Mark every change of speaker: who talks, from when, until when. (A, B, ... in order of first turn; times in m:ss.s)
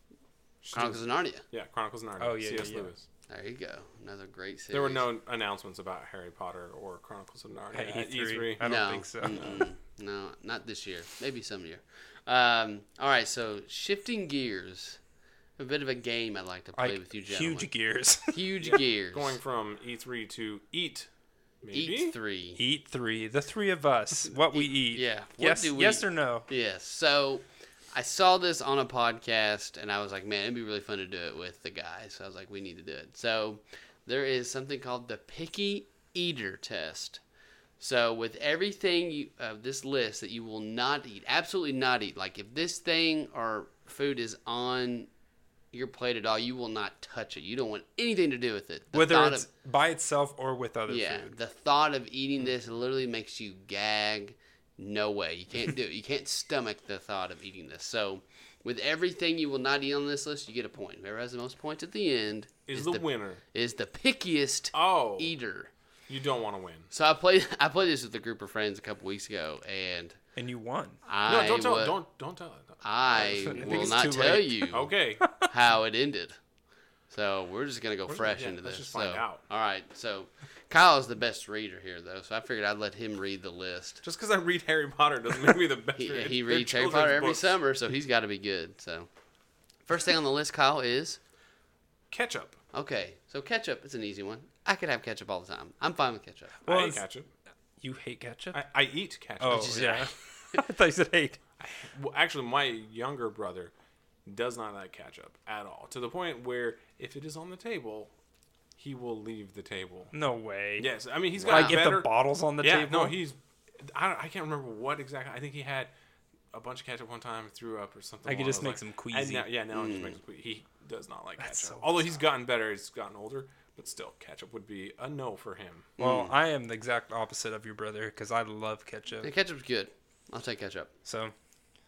0:00.6-0:03.0 A
0:00.7-0:01.4 B
0:02.2-0:02.9 C
0:03.3-0:05.0 B
0:04.7-0:09.6 A
0:07.7-0:09.7 C
0:08.6-0:15.0 B
0:15.6-0:17.7 B
0:16.8-0:18.5 C
0:18.3-0:19.4 B
0:18.6-0:21.1 A
0:21.6-0:22.1 A
0:21.7-0:22.6 B
0:22.6-0:26.5 C
0:24.6-0:37.2 B
0:37.8-0:45.1 B
0:45.7-0:49.5 B
0:48.9-0:51.3 C
0:50.9-1:05.7 B
1:02.7-1:03.4 A
1:04.7-1:05.3 A
1:06.1-1:06.9 A
1:06.9-1:10.2 B
1:10.4-1:11.0 C
1:11.1-1:12.0 B
1:11.3-1:14.1 A
1:12.8-1:16.4 B
1:13.4-1:14.9 C
1:14.7-1:15.3 A
1:17.1-1:24.0 B
1:18.2-1:19.4 A
1:24.0-1:27.5 A
1:26.0-1:29.1 B
1:29.9-1:31.2 B
1:32.1-1:32.6 A
1:32.7-1:36.6 B
1:36.7-1:37.3 A
1:36.7-1:37.0 C
1:37.8-1:38.6 C
1:38.5-1:40.1 A
1:39.4-1:41.4 C
1:39.5-1:40.6 B
1:41.6-1:43.7 A
1:44.3-1:48.1 A
1:48.8-1:50.1 A
1:50.1-1:50.9 C
1:50.8-1:55.9 A
1:51.4-1:51.8 B
1:51.5-1:53.2 C
1:56.5-2:05.9 A
1:58.3-1:59.5 C
1:59.7-2:00.2 B
2:01.4-2:02.1 C
2:06.0-2:06.3 B
2:06.0-2:09.3 C
2:09.2-2:10.9 B
2:11.0-2:11.3 C